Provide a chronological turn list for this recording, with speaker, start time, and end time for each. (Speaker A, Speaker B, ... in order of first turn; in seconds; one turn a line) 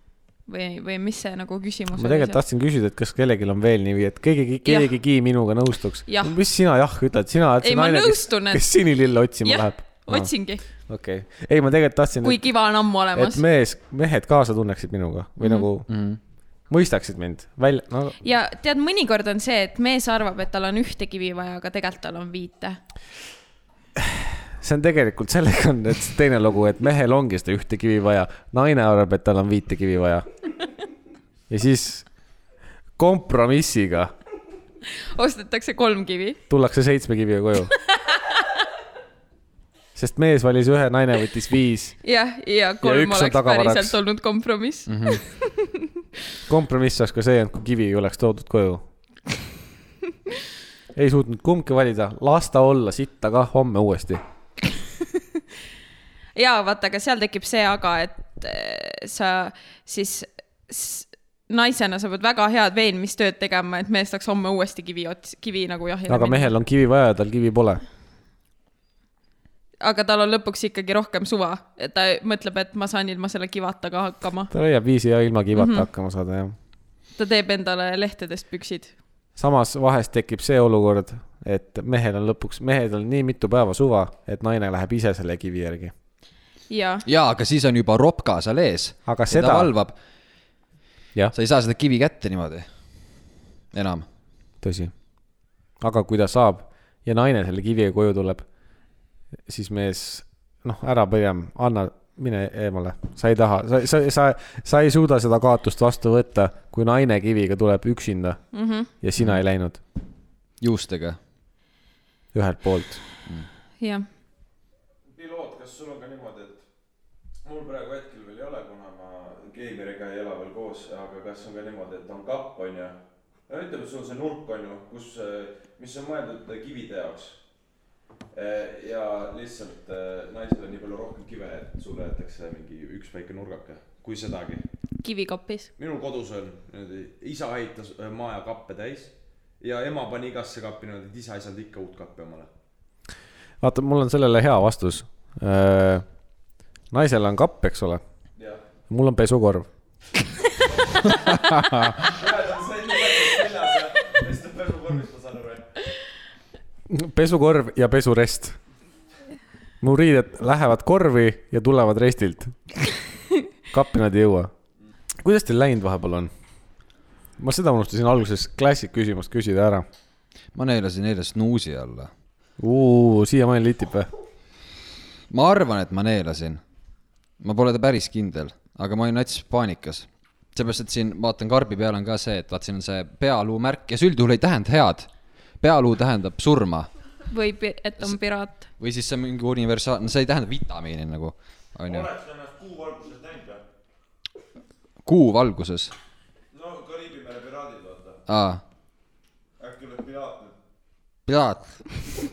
Speaker A: 0.5-2.4
Speaker B: 1.9-10.3
Speaker A: 6.1-6.3
Speaker A: 7.6-8.7
Speaker A: 9.4-10.6
Speaker B: 10.8-12.4
Speaker A: 12.2-13.4
Speaker B: 13.1-15.9
Speaker A: 15.4-15.7
Speaker C: 15.9-16.2
Speaker B: 16.7-18.2
Speaker A: 18.2-22.8
Speaker B: 24.0-30.2
Speaker B: 31.5-32.0
Speaker B: 33.0-34.1
Speaker A: 35.1-36.4
Speaker B: 36.5-37.7
Speaker A: 37.9-38.5
Speaker B: 39.9-42.0
Speaker A: 42.0-45.9
Speaker B: 42.8-44.0
Speaker C: 44.9-45.2
Speaker B: 46.5-48.8
Speaker B: 50.9-54.2
Speaker A: 56.3-66.5
Speaker B: 66.1-67.8
Speaker A: 69.8-74.5
Speaker B: 74.5-76.5
Speaker A: 75.5-75.9
Speaker A: 77.2-78.9
Speaker B: 79.3-85.9
Speaker A: 86.7-87.0
Speaker C: 87.0-89.9
Speaker B: 89.0-89.7
Speaker C: 91.3-92.7
Speaker C: 93.7-94.0
Speaker B: 94.6-94.9
Speaker B: 95.8-98.4
Speaker B: 99.5-108.4
Speaker A: 108.5-108.9
Speaker B: 109.0-109.8
Speaker C: 110.6-111.2
Speaker B: 112.3-113.0
Speaker A: 113.8-114.0
Speaker D: 115.1-116.6
Speaker D: 117.4-127.4
Speaker D: 128.3-134.6
Speaker A: 135.0-135.7
Speaker D: 135.8-142.5
Speaker B: 143.6-146.0
Speaker B: 146.9-148.0
Speaker B: 148.9-149.7
Speaker C: 151.6-151.9
Speaker D: 151.9-155.7
Speaker B: 156.9-158.6
Speaker B: 159.8-162.6
Speaker B: 163.7-164.5
Speaker B: 165.2-166.3
Speaker B: 167.4-169.8
Speaker C: 170.5-172.1
Speaker B: 172.6-174.1
Speaker C: 175.3-176.6
Speaker C: 177.4-186.9
Speaker A: 187.3-188.6
Speaker C: 188.7-192.1
Speaker D: 191.8-193.6
Speaker C: 195.0-195.9
Speaker D: 196.5-198.2
Speaker C: 198.3-198.6
Speaker D: 199.6-200.5
Speaker C: 201.3-201.8